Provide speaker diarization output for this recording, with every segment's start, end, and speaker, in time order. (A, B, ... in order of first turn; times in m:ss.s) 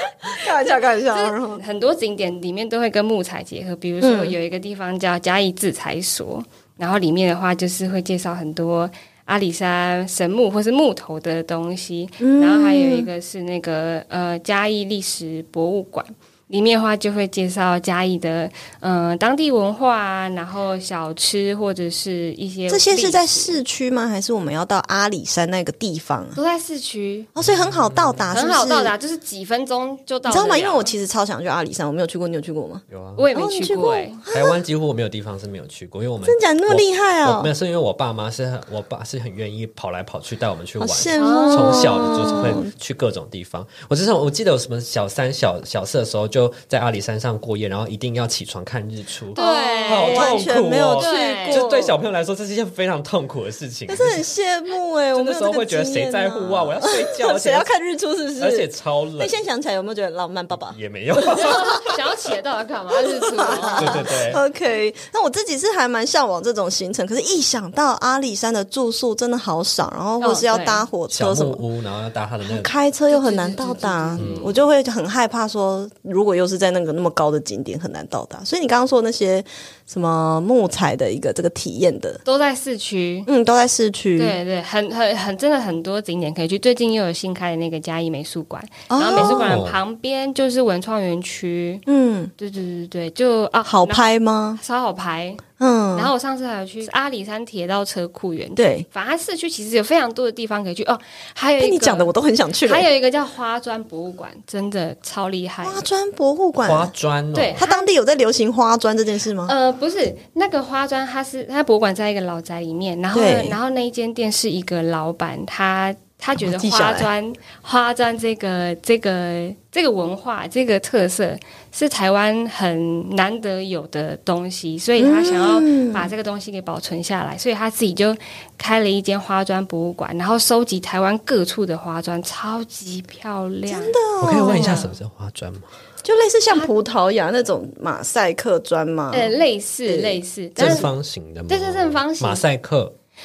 0:00.2-0:01.6 A
0:01.1-0:23.6 B
0:04.0-0:04.4 A
0:12.2-0:13.1 A
0:22.7-0:26.4 A
0:26.4-0:27.3 B
0:27.4-0:28.9 A
0:27.4-0:28.3 C
0:28.3-0:30.9 B
0:30.3-0:32.8 A
0:32.9-0:33.3 C
0:33.2-0:34.2 B
0:33.4-0:34.6 A
0:34.3-0:54.3 C
0:36.2-0:37.5 A
0:40.8-0:42.7 A
0:41.2-0:42.3 B
0:49.4-0:51.6 B
0:49.4-0:52.0 A
0:53.9-1:01.9 A
0:55.1-0:57.7 C
0:58.4-0:59.4 C
1:00.6-1:01.9 C
1:01.4-1:04.1 B
1:03.1-1:11.6 A
1:03.8-1:04.4 C
1:10.2-1:10.8 B
1:11.1-1:12.7 C
1:12.4-1:22.2 A
1:13.1-1:14.6 B
1:14.2-1:14.5 C
1:22.2-1:23.3 B
1:23.3-1:24.4 A
1:24.2-1:31.8 B
1:28.9-1:29.6 A
1:29.2-1:29.8 C
1:31.9-1:32.3 A
1:32.4-1:34.1 B
1:33.6-1:34.6 A
1:34.6-1:35.4 B
1:35.6-1:36.1 A
1:36.0-1:42.1 B
1:38.6-1:38.9 A
1:41.6-1:42.9 A
1:42.6-1:45.8 B
1:45.6-1:46.9 A
1:46.6-1:47.6 C
1:47.4-1:47.9 B
1:47.6-1:49.5 A
1:49.5-2:15.0 B
1:53.1-1:53.6 A
1:56.4-1:57.1 A
2:05.0-2:06.1 A
2:13.7-2:14.8 A
2:14.2-2:15.7 C
2:16.0-2:20.9 A
2:19.1-2:20.9 B
2:20.6-2:23.0 C
2:21.5-2:22.4 B